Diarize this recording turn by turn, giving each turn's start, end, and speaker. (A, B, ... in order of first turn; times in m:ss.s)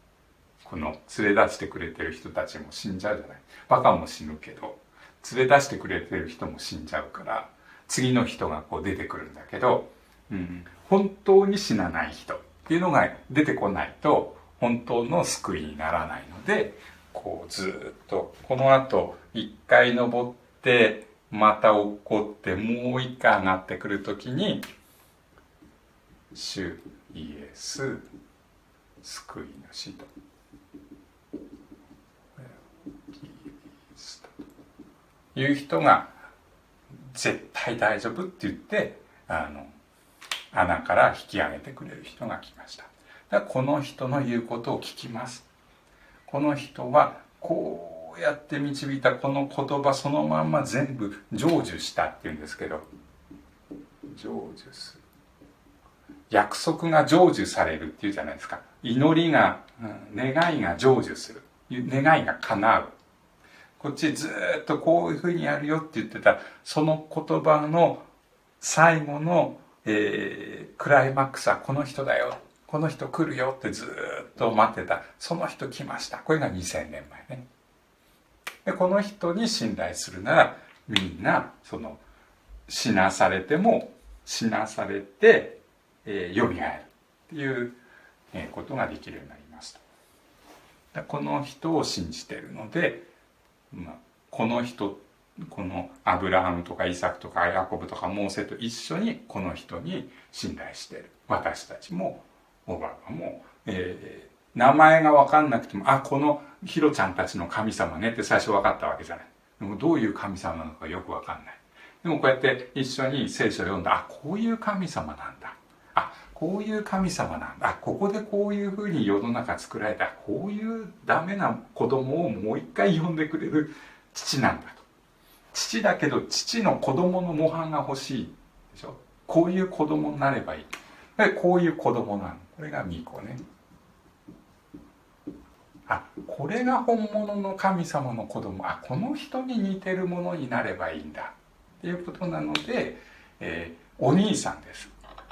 0:00.6-0:24.7 A
0:26.3-0:28.1 A
0:29.0-0:30.1 A
0:32.4-0:34.3 A
0:35.3-0:36.2 A
0:37.0-0:39.7 A
0:40.5-0:45.5 A
0:46.3-0:52.9 A
0:54.1-0:55.0 A
0:56.3-1:02.9 A
1:03.8-1:08.0 A
1:08.6-1:17.4 A
1:18.6-1:22.0 A
1:22.7-1:27.8 A
1:28.3-1:29.8 A
1:30.9-1:33.1 A
1:33.7-2:04.8 A
2:05.5-2:13.4 A
2:15.9-2:24.9 A